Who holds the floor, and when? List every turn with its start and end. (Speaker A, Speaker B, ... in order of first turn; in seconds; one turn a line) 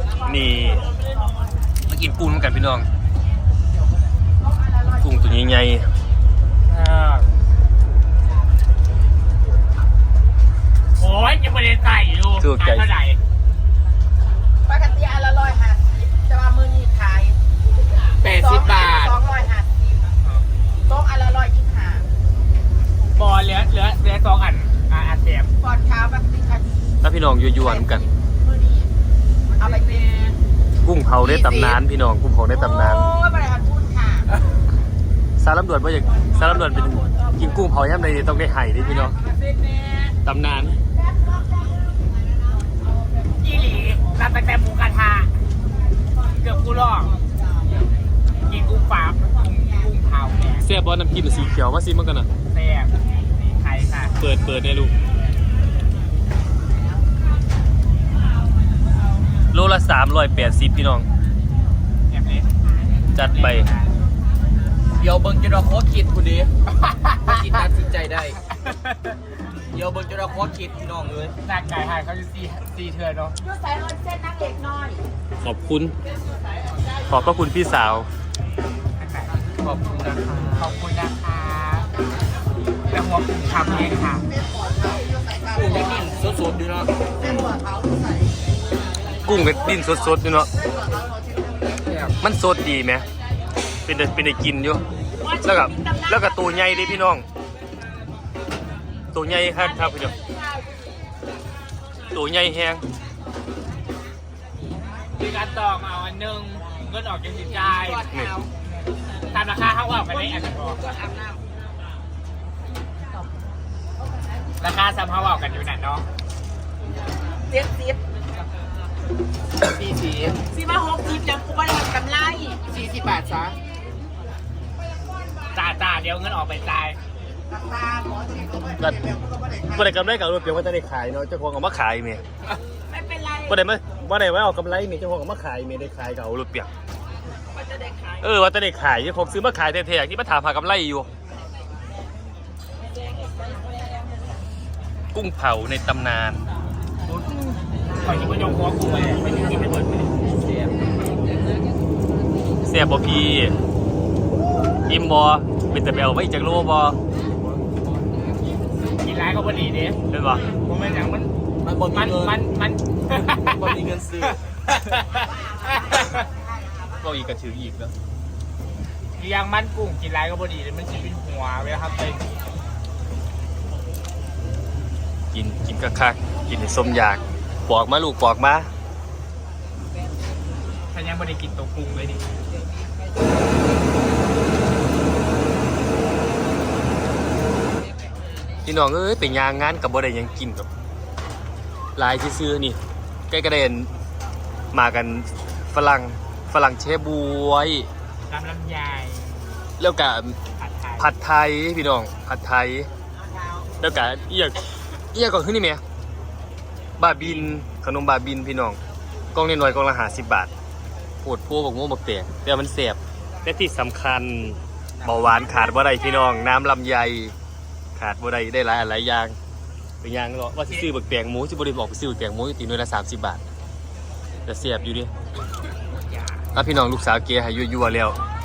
Speaker A: 0.2-0.8
Speaker A: 1.9-2.9
Speaker A: 5.0-5.9
Speaker B: 6.7-7.3
Speaker B: 11.0-13.2
Speaker A: 12.4-12.9
Speaker C: 14.7-17.3
Speaker B: 18.2-19.1
Speaker D: 18.3-19.1
Speaker C: 18.4-19.7
Speaker C: 20.9-22.0
Speaker B: 23.1-25.5
Speaker C: 25.6-26.7
Speaker A: 27.0-28.0
Speaker C: 28.5-28.9
Speaker D: 29.6-30.3
Speaker C: 29.6-29.9
Speaker A: 30.8-33.1
Speaker C: 31.3-31.7
Speaker C: 32.6-34.3
Speaker A: 35.4-39.1
Speaker A: 40.2-40.8
Speaker B: 43.4-45.3
Speaker B: 46.3-47.1
Speaker B: 48.5-50.6
Speaker A: 50.6-52.3
Speaker B: 52.5-54.1
Speaker A: 54.2-54.9
Speaker A: 59.5-61.1
Speaker B: 62.1-62.5
Speaker A: 63.1-63.7
Speaker B: 63.2-63.9
Speaker D: 65.0-66.5
Speaker B: 66.8-67.2
Speaker D: 67.2-68.4
Speaker B: 68.6-69.2
Speaker D: 69.7-71.3
Speaker B: 71.4-73.4
Speaker C: 73.4-75.0
Speaker A: 75.4-75.9
Speaker A: 77.1-78.1
Speaker B: 79.0-79.3
Speaker D: 79.6-80.7
Speaker B: 80.6-81.9
Speaker B: 82.9-84.3
Speaker D: 85.5-86.9
Speaker A: 87.2-87.6
Speaker A: 89.2-90.5
Speaker D: 91.8-92.1
Speaker A: 92.2-93.0
Speaker A: 93.8-94.8
Speaker C: 95.2-96.1
Speaker A: 95.4-97.2
Speaker A: 99.1-100.1
Speaker A: 102.1-102.8
Speaker B: 105.2-108.0
Speaker C: 108.1-108.5
Speaker B: 109.3-110.8
Speaker C: 110.8-111.4
Speaker B: 114.6-116.0
Speaker C: 117.5-118.0
Speaker D: 119.6-120.4
Speaker C: 120.5-122.6
Speaker D: 122.6-123.6
Speaker B: 125.5-127.0
Speaker C: 127.5-128.6
Speaker A: 128.8-129.1
Speaker A: 129.6-132.2
Speaker C: 132.9-133.5
Speaker A: 133.5-136.7
Speaker A: 138.2-141.1
Speaker A: 145.1-146.4
Speaker B: 148.0-150.1
Speaker D: 150.3-150.8
Speaker A: 152.6-153.6
Speaker A: 154.8-157.0
Speaker B: 159.0-160.0
Speaker A: 160.1-160.5
Speaker B: 160.7-161.3
Speaker D: 160.8-161.1
Speaker D: 161.6-162.3
Speaker B: 161.9-163.8
Speaker D: 163.3-164.6
Speaker B: 164.8-166.2
Speaker A: 167.0-167.9
Speaker B: 169.2-172.2
Speaker A: 175.3-178.7
Speaker B: 180.9-182.2
Speaker A: 188.6-190.7
Speaker A: 191.9-192.8
Speaker A: 193.3-193.9
Speaker A: 194.7-197.9
Speaker B: 198.3-199.6
Speaker A: 199.8-200.3
Speaker B: 200.6-201.1
Speaker A: 201.0-202.9
Speaker A: 203.8-205.8
Speaker A: 207.0-208.8
Speaker B: 207.2-207.5
Speaker A: 209.3-210.5
Speaker A: 211.2-217.3
Speaker B: 215.0-215.4
Speaker A: 217.9-219.3
Speaker A: 220.0-223.4
Speaker A: 224.4-225.1
Speaker B: 226.0-226.4
Speaker A: 226.5-228.2